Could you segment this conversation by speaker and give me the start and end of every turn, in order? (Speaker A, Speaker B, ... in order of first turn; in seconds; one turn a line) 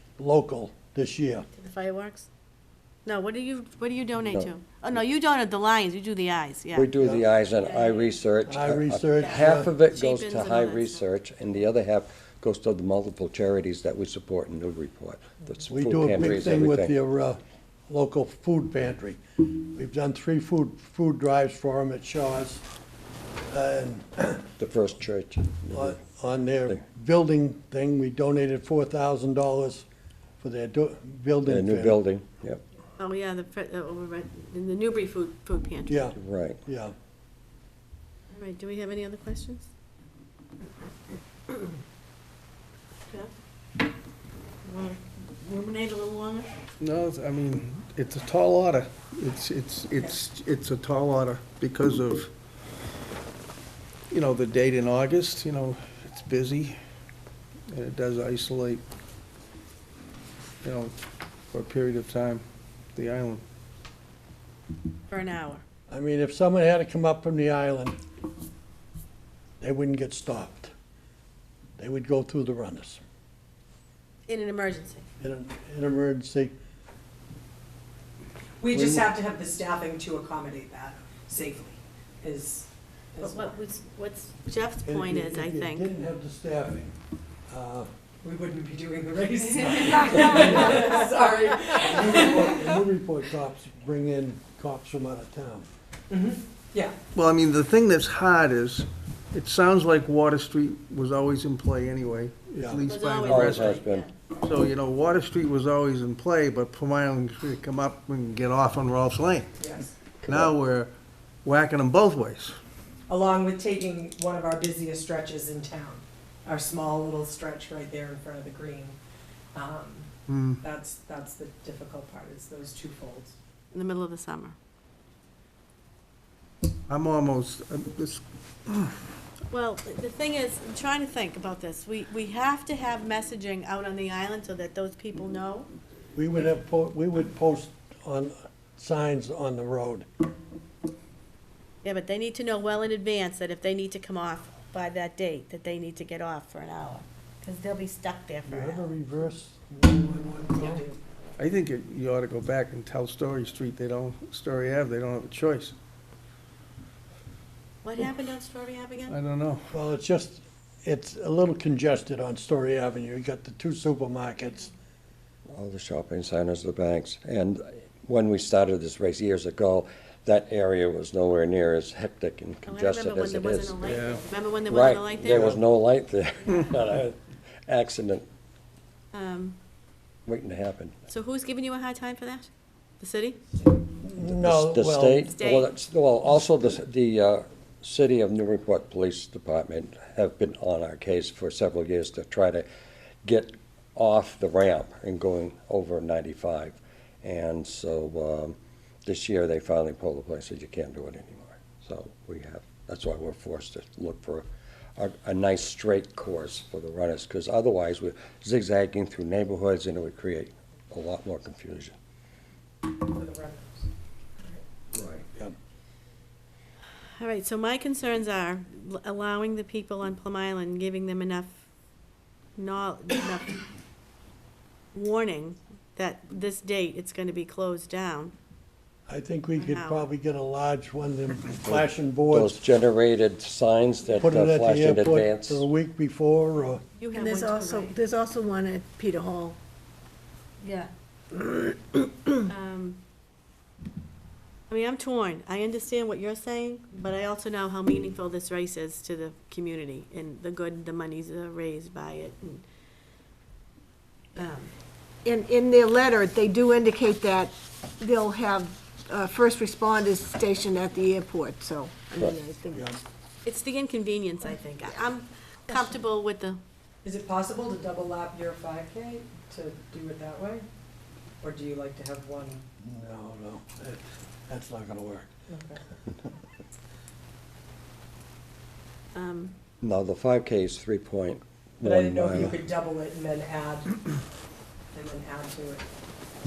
Speaker A: 0.2-1.5
Speaker B: 1.5-2.3
Speaker B: 3.0-6.9
Speaker C: 6.7-16.9
Speaker A: 7.0-7.2
Speaker B: 7.6-8.2
Speaker A: 8.5-9.7
Speaker B: 9.2-11.1
Speaker A: 15.7-22.6
Speaker A: 23.5-24.5
Speaker C: 24.6-26.0
Speaker A: 25.7-29.9
Speaker A: 30.4-32.0
Speaker C: 31.4-32.6
Speaker B: 33.0-36.1
Speaker A: 35.9-36.9
Speaker C: 36.2-36.6
Speaker B: 38.3-39.7
Speaker B: 44.6-46.5
Speaker D: 46.8-52.3
Speaker D: 54.1-56.8
Speaker D: 57.7-58.8
Speaker D: 60.6-60.9
Speaker D: 61.5-62.4
Speaker D: 63.0-63.4
Speaker B: 65.1-65.6
Speaker A: 65.9-68.0
Speaker A: 69.6-70.7
Speaker A: 71.8-73.0
Speaker B: 74.3-75.1
Speaker A: 75.2-76.5
Speaker E: 78.6-83.6
Speaker A: 78.7-79.1
Speaker B: 83.2-85.9
Speaker A: 84.8-87.0
Speaker A: 87.5-87.9
Speaker E: 88.2-92.7
Speaker A: 90.2-90.9
Speaker A: 91.8-95.7
Speaker E: 96.1-97.0
Speaker D: 97.1-103.8
Speaker A: 102.5-102.8
Speaker B: 102.8-104.1
Speaker C: 103.3-104.1
Speaker D: 104.4-109.5
Speaker E: 109.6-109.9
Speaker C: 110.2-110.5
Speaker D: 110.3-110.9
Speaker D: 111.4-112.6
Speaker E: 113.1-119.0
Speaker E: 119.5-123.3
Speaker D: 120.3-120.6
Speaker B: 123.7-124.6
Speaker D: 126.9-129.1
Speaker B: 129.5-135.7
Speaker A: 136.2-140.1
Speaker B: 141.8-149.0
Speaker A: 148.5-150.9
Speaker E: 150.6-151.0
Speaker D: 151.4-155.8
Speaker B: 157.8-159.2
Speaker D: 159.1-159.7
Speaker A: 159.7-164.7
Speaker C: 165.5-173.8
Speaker B: 172.7-175.6
Speaker D: 173.8-174.2
Speaker C: 174.7-178.3
Speaker A: 175.2-175.6
Speaker B: 179.1-179.6
Speaker C: 180.3-180.9
Speaker B: 181.1-182.5
Speaker B: 183.0-183.4
Speaker A: 184.0-185.3
Speaker C: 184.2-192.7
Speaker B: 185.2-185.7
Speaker C: 193.2-211.9
Speaker E: 212.9-214.6
Speaker C: 214.9-215.2
Speaker B: 217.2-221.6
Speaker B: 222.6-223.6
Speaker B: 224.9-228.3
Speaker A: 229.1-232.6
Speaker B: 229.6-230.1
Speaker C: 231.6-235.7
Speaker A: 234.2-236.8
Speaker B: 237.0-238.0
Speaker F: 237.1-239.6
Speaker F: 241.3-242.2
Speaker B: 242.5-243.0
Speaker B: 244.7-252.7
Speaker B: 254.3-254.7
Speaker F: 255.2-263.0
Speaker A: 262.7-263.0
Speaker B: 263.4-266.6
Speaker E: 267.0-270.6
Speaker E: 271.4-272.6
Speaker A: 272.8-275.3
Speaker E: 275.5-275.8
Speaker B: 279.1-279.5
Speaker C: 279.8-282.6
Speaker E: 281.8-284.0
Speaker E: 284.9-285.9